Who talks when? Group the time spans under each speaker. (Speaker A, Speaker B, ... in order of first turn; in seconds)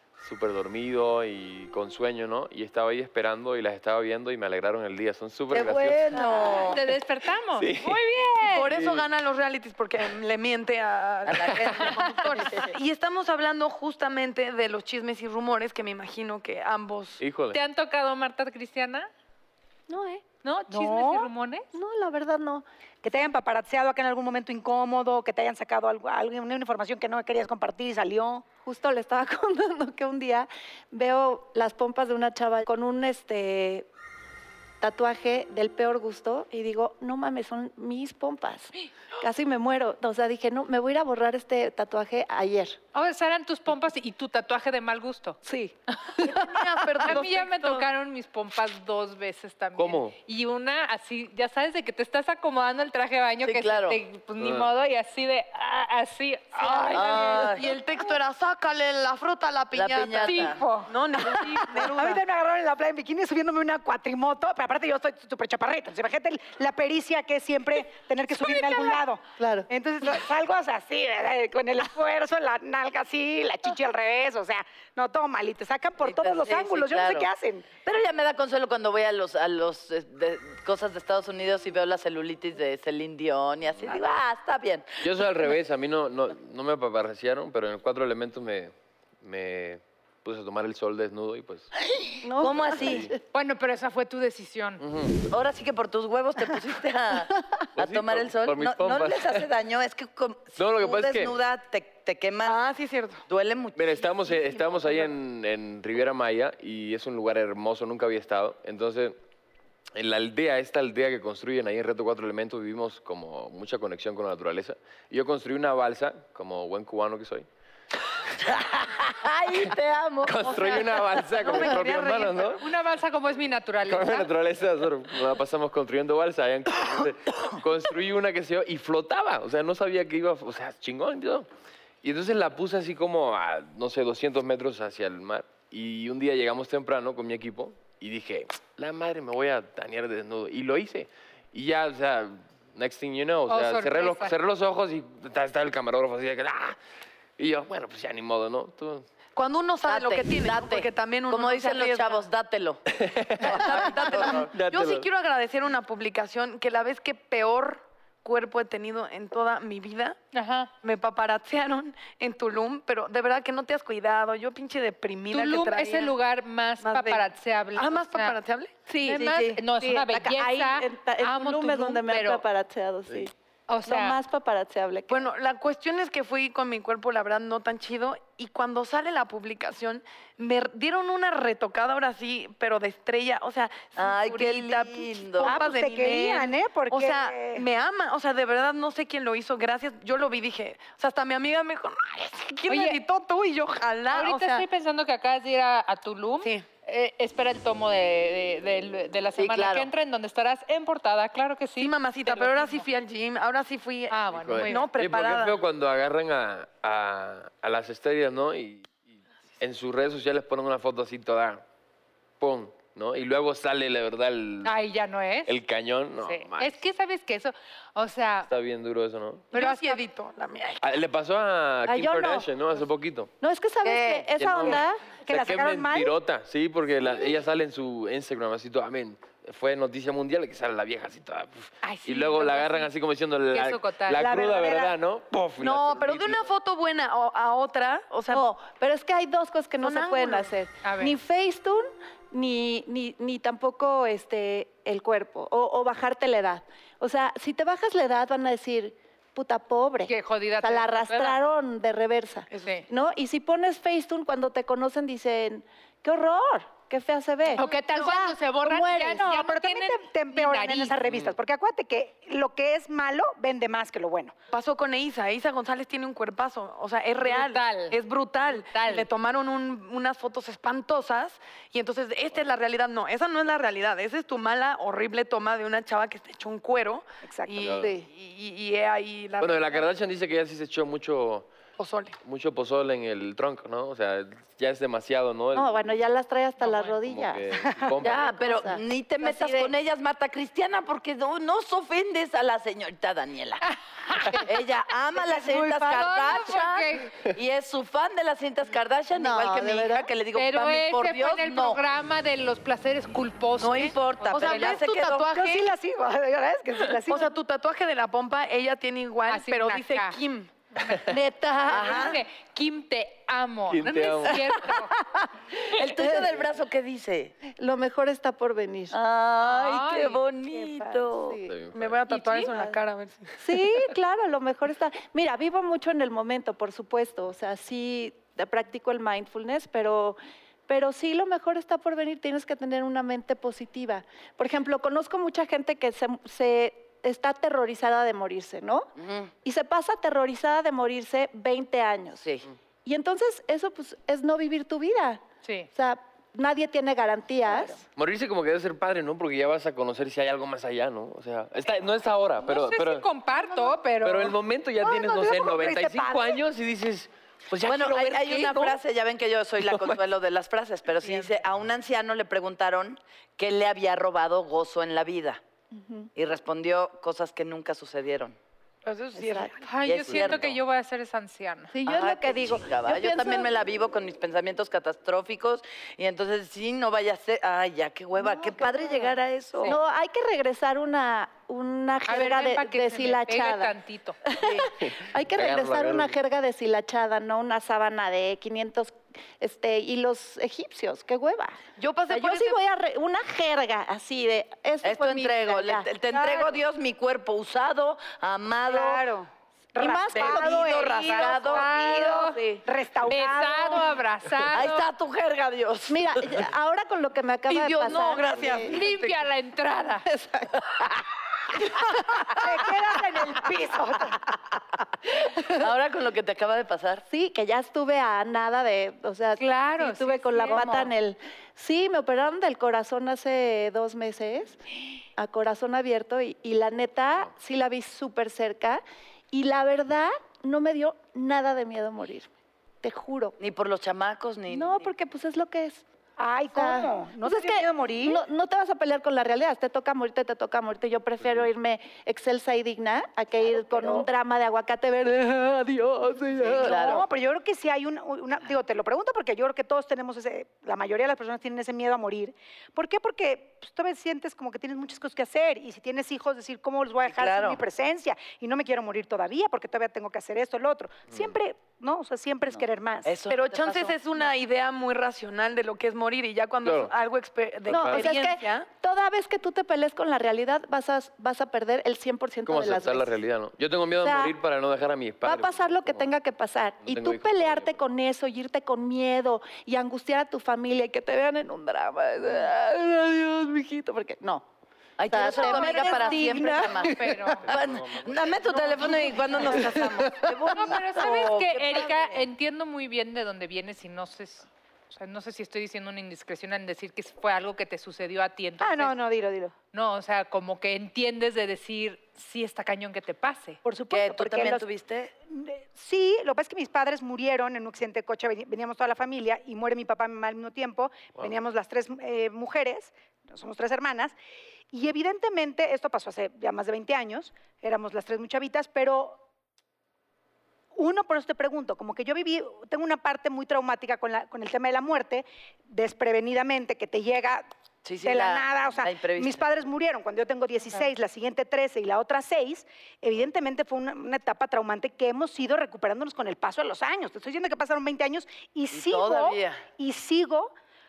Speaker A: 0.2-6.3, 7.5-8.0, 8.7-9.1, 17.2-17.6, 49.8-50.1, 54.4-54.7, 85.0-91.7, 92.6-93.1, 94.8-95.2, 97.8-99.5, 100.6-101.4, 103.8-109.2, 109.9-117.5, 120.2-122.7, 123.8-131.5, 132.0-146.8, 147.4-149.1, 152.9-155.1, 204.3-208.9, 209.6-211.6, 212.4-214.7, 215.4-216.8, 218.5-219.5, 220.8-223.3, 224.3-236.4, 261.1-261.3, 277.6-277.9, 279.4-281.5, 282.2-286.0, 287.0-288.4, 313.7-314.6, 321.4-322.0, 347.9-353.1, 353.9-358.8, 359.7-360.0, 370.1-370.5, 384.8-386.1, 466.6-466.9, 467.7-468.2, 472.4-476.1, 476.8-477.8, 487.6-488.0
Speaker B: 5.5-6.8, 11.3-12.7, 53.4-54.0, 56.9-57.6, 59.7-60.6, 76.0-77.3, 77.8-85.1, 92.3-93.1, 95.3-102.6, 103.3-105.0, 118.4-120.5, 149.8-152.8, 153.4-154.5, 183.9-185.6, 199.3-199.9, 288.0-293.6, 294.3-301.8, 303.6-305.3, 311.7-312.2, 315.7-317.4, 318.9-321.4, 339.0-339.3, 342.2-342.5, 357.6-365.4, 366.1-368.4, 369.8-370.5, 371.9-379.8, 394.8-399.1, 400.1-402.3, 404.5-406.4, 415.6-417.0, 420.5-420.9, 433.4-434.9, 446.6-447.1, 457.0-457.6, 463.0-464.2, 485.0-492.0, 503.9-505.1, 527.8-529.5, 538.7-539.6
Speaker C: 6.6-8.7, 11.8-12.4, 17.5-19.1, 20.4-21.7, 42.9-45.4, 46.0-46.5, 47.0-57.8, 60.2-60.9, 68.4-69.0, 93.3-94.8, 120.5-120.8, 121.4-124.3, 143.5-144.3, 160.3-160.7, 165.3-168.3, 168.9-172.4, 173.7-174.2, 192.7-193.0, 194.1-202.8, 204.1-204.9, 214.6-215.5, 216.2-218.5, 219.5-220.0, 231.8-232.9, 233.5-234.3, 240.8-241.2, 250.1-251.4, 257.5-261.0, 267.2-269.1, 286.6-287.0, 294.1-294.5, 295.7-297.1, 300.3-304.8, 309.3-310.2, 310.8-314.9, 319.4-320.2, 322.1-322.5, 345.4-345.7, 352.4-354.4, 369.6-371.7, 382.1-384.2, 401.0-402.4, 403.1-404.9, 408.7-410.1, 419.4-420.6, 485.2-487.6, 490.5-498.9, 499.7-503.6
Speaker D: 8.4-17.2, 46.2-47.9, 56.7-62.2, 102.4-103.2, 121.2-122.5, 149.3-152.2, 153.4-160.2, 160.8-166.2, 166.8-168.9, 175.1-194.6, 201.8-205.6, 219.5-221.0, 235.6-238.4, 239.8-240.5, 264.5-279.9, 281.8-282.2, 304.3-305.7, 307.1-310.5, 321.7-323.3, 368.8-369.6, 391.8-392.6, 407.5-409.1, 463.3-468.7
Speaker E: 19.9-20.2, 21.7-22.6, 28.6-33.9, 34.8-42.8, 45.5-45.7, 69.4-69.7, 92.2-93.2, 168.9-173.3, 173.8-175.3, 221.8-222.5, 223.4-225.1, 238.3-257.6, 258.6-259.2, 277.8-278.1, 285.5-287.5, 288.3-289.7, 299.1-300.1, 315.9-316.4, 317.5-319.0, 321.1-321.5, 323.4-338.9, 339.4-342.3, 342.8-347.8, 365.7-366.1, 369.1-369.5, 371.7-373.5, 378.2-383.7, 384.2-391.6, 392.1-395.9, 399.8-400.9, 405.9-408.8, 410.1-410.8, 415.4-415.7, 417.1-424.6, 425.2-432.3, 432.8-433.4, 434.5-435.8, 436.5-447.0, 467.7-473.2, 473.9-474.4, 475.2-484.4, 485.0-487.4, 488.6-490.5
Speaker F: 20.7-21.3, 23.0-28.5, 56.7-57.2, 61.7-77.7, 185.4-187.7, 225.2-226.2, 234.2-234.9, 259.1-264.3, 277.2-277.7, 295.2-296.1, 305.3-307.3, 354.8-356.4, 396.1-396.5, 398.7-403.9, 412.4-414.2, 436.2-438.2, 443.4-444.1, 446.4-463.1, 498.6-499.5, 503.6-504.6, 505.3-514.1, 514.7-519.2, 520.7-527.4, 528.0-540.5